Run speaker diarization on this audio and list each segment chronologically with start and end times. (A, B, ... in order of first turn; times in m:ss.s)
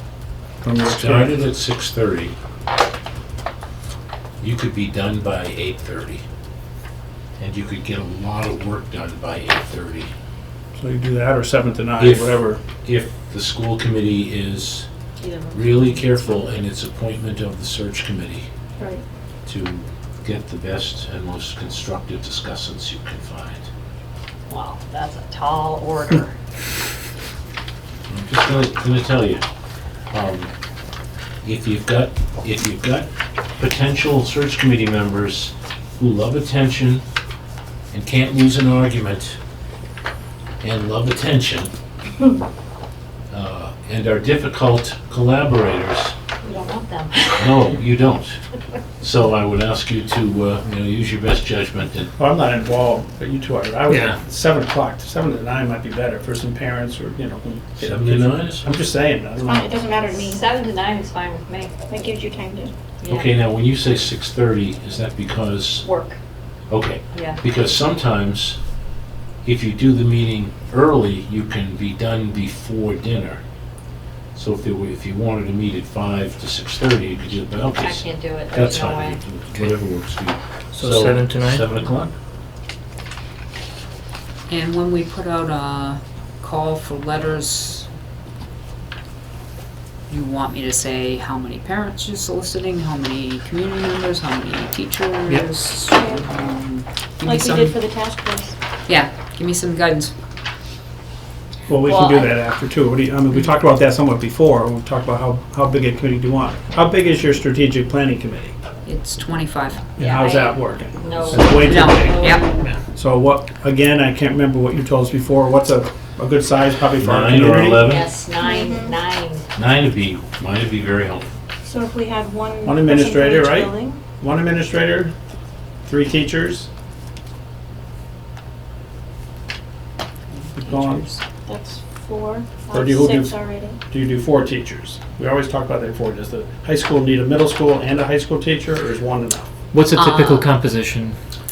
0:00.6-0:01.4 A
0:00.8-0:02.3 B
0:04.4-0:06.2 B
0:07.4-0:10.1 B
0:10.7-0:12.6 A
0:12.0-0:14.9 B
0:15.2-0:16.5 C
0:15.5-0:18.5 B
0:18.8-0:19.0 D
0:19.4-0:23.7 B
0:24.5-0:26.3 C
0:28.1-0:29.4 B
0:30.1-0:30.5 B
0:31.4-0:33.1 B
0:33.6-0:37.0 B
0:37.9-0:39.4 B
0:40.6-0:41.7 B
0:43.3-0:46.1 B
0:46.4-0:47.7 C
0:47.4-0:48.4 B
0:49.0-0:52.1 B
0:52.2-0:59.7 A
0:53.9-0:54.2 E
0:57.8-0:58.7 B
0:59.4-1:00.4 D
1:00.0-1:01.8 C
1:01.9-1:02.7 D
1:03.0-1:03.3 C
1:03.1-1:05.8 B
1:05.8-1:06.2 C
1:06.7-1:08.6 B
1:07.1-1:07.4 C
1:09.4-1:13.4 B
1:14.3-1:22.1 B
1:17.6-1:19.2 C
1:20.7-1:21.7 E
1:24.5-1:27.9 F
1:30.1-1:37.9 F
1:35.9-1:36.3 D
1:37.2-1:38.5 D
1:38.9-1:40.1 F
1:41.7-1:48.5 A
1:41.8-1:42.3 C
1:48.8-1:50.0 F
1:50.0-1:57.9 A
1:50.0-1:52.7 C
1:51.5-1:52.6 F
1:57.0-1:58.1 B
1:57.8-1:59.4 C
1:58.4-1:59.0 D
1:59.5-2:01.3 B
2:01.6-2:04.0 D
2:02.6-2:05.1 A
2:05.8-2:06.7 A
2:10.3-2:11.2 F
2:10.6-2:11.0 A
2:11.4-2:13.8 D
2:12.7-2:13.4 A
2:13.9-2:19.5 A
2:19.7-2:21.2 E
2:19.9-2:20.5 F